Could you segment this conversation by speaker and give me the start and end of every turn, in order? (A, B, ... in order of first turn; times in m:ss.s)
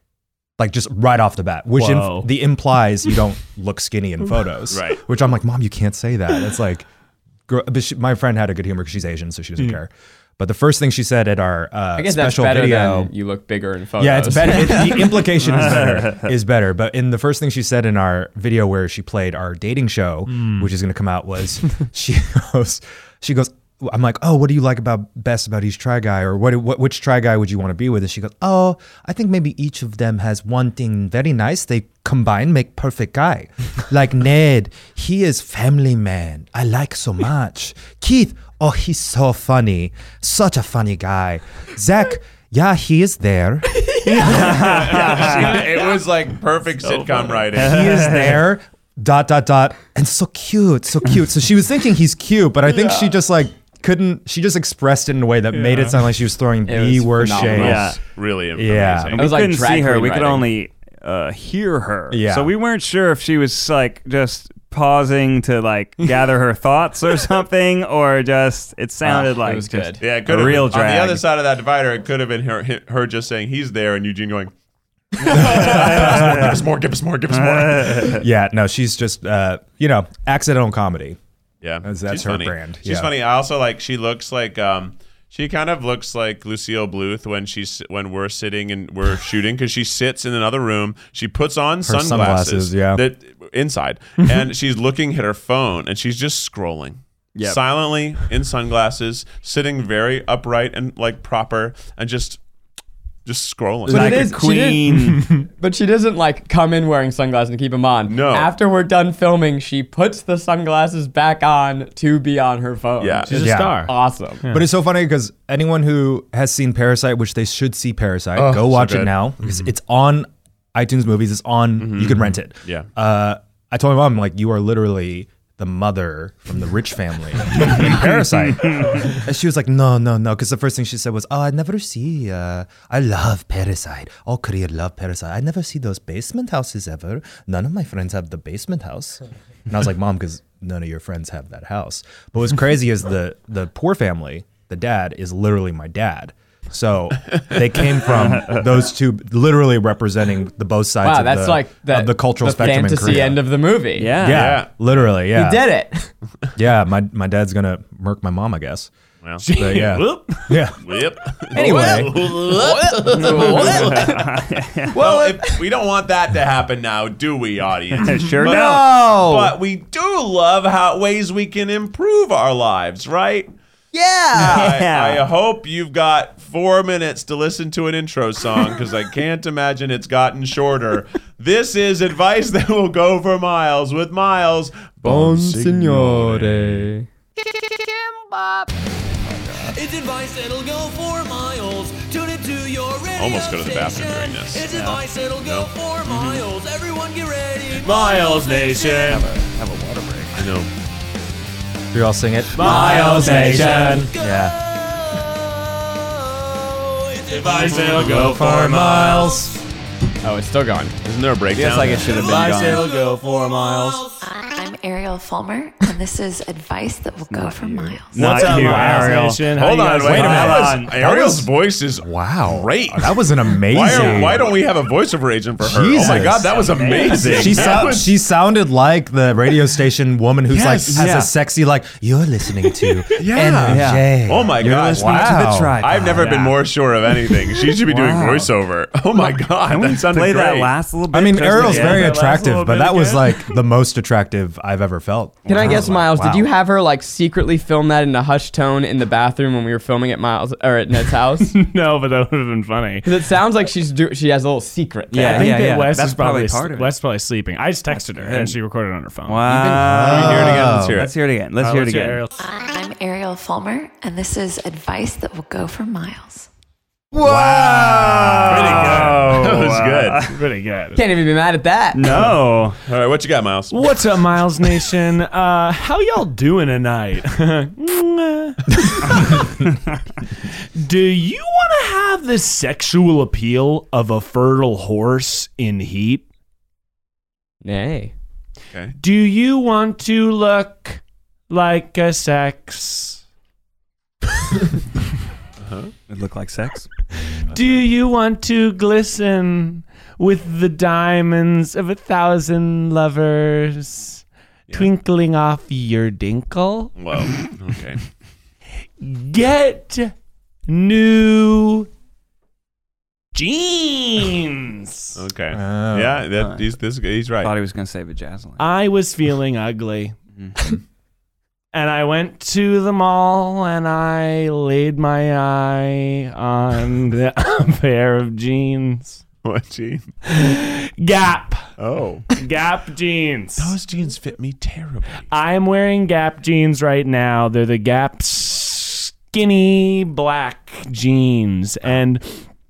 0:00.6-0:06.9 A
0:01.8-0:02.3 B
0:04.7-0:05.0 C
0:07.5-0:13.1 A
0:12.0-0:15.0 D
0:14.0-0:44.0 A
0:15.3-0:16.4 E
0:20.4-0:20.7 B
0:44.0-0:45.9 B
0:44.1-0:45.7 E
0:44.3-0:48.1 C
0:46.8-0:47.5 B
0:47.5-0:48.5 E
0:47.6-0:58.0 A
0:55.5-0:56.0 B
0:56.7-0:58.0 D
0:57.4-0:58.0 E
0:58.1-0:59.3 C
0:58.6-0:59.2 A
0:59.2-1:00.5 D
0:59.2-1:11.2 E
1:02.1-1:02.5 A
1:09.0-1:10.0 D
1:10.0-1:14.5 C
1:15.2-1:18.2 C
1:15.3-1:16.6 E
1:15.3-1:16.6 A
1:17.3-1:18.2 E
1:18.1-1:21.2 A
1:21.6-1:42.4 C
1:21.8-1:23.1 A
1:31.8-1:33.0 A
1:43.3-1:44.3 C
1:43.9-1:45.3 E
1:43.9-1:54.4 D
1:45.1-1:45.4 B
1:48.1-1:48.5 C
1:53.0-1:53.4 C
1:53.3-1:53.9 B
1:53.4-1:53.9 A
1:54.5-2:33.4 A
1:58.4-1:59.2 C
2:01.8-2:02.9 C
2:28.1-2:28.8 E
2:31.0-2:34.1 D
2:34.0-2:34.6 E
2:34.2-2:35.7 A
2:34.2-2:34.7 C
2:35.3-2:36.1 D
2:36.6-2:38.9 A
2:39.4-2:40.7 B
2:39.6-2:40.8 A
2:40.8-2:44.2 C
2:41.4-2:42.3 A
2:41.6-2:44.4 D
2:43.2-2:45.0 E
2:44.9-2:45.6 D
2:45.0-2:53.5 C
2:48.0-2:48.9 E
2:48.4-2:49.6 D
2:53.9-2:54.7 D
2:54.4-2:55.2 E
2:54.4-3:06.8 C
3:05.0-3:07.1 D
3:07.4-3:08.7 F
3:09.6-3:19.4 F
3:13.2-3:14.7 C
3:14.7-3:15.0 E
3:15.4-3:15.7 C
3:16.1-3:16.5 E
3:17.8-3:19.3 B
3:19.1-3:20.3 E
3:20.4-3:20.7 C
3:21.9-3:23.2 A
3:22.6-3:24.1 B
3:22.6-3:29.6 F
3:22.8-3:23.7 D
3:23.5-3:23.8 E
3:24.1-3:24.6 A
3:27.3-3:29.4 B
3:28.1-3:29.5 A
3:30.2-3:31.0 D
3:31.0-3:32.6 C
3:31.6-3:32.8 D
3:31.7-3:32.7 E
3:31.9-3:34.2 F
3:32.0-3:34.0 B
3:34.2-3:38.7 G
3:37.3-3:41.0 E
3:38.2-3:40.8 B
3:39.4-3:48.1 C
3:40.8-3:44.6 A
3:43.9-3:44.3 E
3:45.6-3:46.6 A
3:46.1-3:47.9 B
3:47.2-3:56.1 A
3:50.5-3:51.2 C
3:50.9-3:51.3 E
3:53.2-4:00.7 C
3:53.4-3:56.4 E
3:56.2-3:56.6 B
3:57.3-3:58.5 E
3:59.7-4:02.3 E
4:01.1-4:06.5 A
4:01.4-4:03.6 B
4:05.5-4:11.6 D
4:05.6-4:05.9 E
4:11.4-4:13.2 B
4:13.0-4:15.6 D
4:15.1-4:16.9 E
4:15.2-4:19.6 B
4:17.9-4:18.6 E
4:19.2-4:22.2 E
4:19.6-4:21.0 A
4:19.7-4:21.1 C
4:21.6-4:22.3 B
4:22.4-4:26.5 G
4:27.1-4:29.1 A
4:27.9-4:30.4 E
4:28.1-4:30.3 C
4:28.5-4:29.2 B
4:30.3-4:31.0 B
4:31.0-4:32.2 D
4:31.9-4:32.8 E
4:32.1-4:33.9 C
4:33.7-4:39.6 B
4:40.8-4:46.3 B
4:47.6-4:48.1 D
4:49.0-4:53.2 B
4:55.6-4:55.9 C
4:56.1-4:56.9 E
4:57.5-5:07.5 B
5:07.0-5:08.0 C
5:09.0-5:10.1 B
5:10.7-5:11.9 B
5:13.3-5:15.2 B
5:15.2-5:17.5 C
5:15.5-5:16.3 A
5:16.4-5:16.7 E
5:17.4-5:18.7 E
5:18.6-5:20.2 B
5:20.4-5:20.7 E
5:21.7-5:29.2 B
5:29.4-5:30.1 C
5:30.2-5:31.7 B
5:31.8-5:32.3 C
5:32.3-5:33.8 B
5:33.6-5:35.3 C
5:35.3-5:42.4 B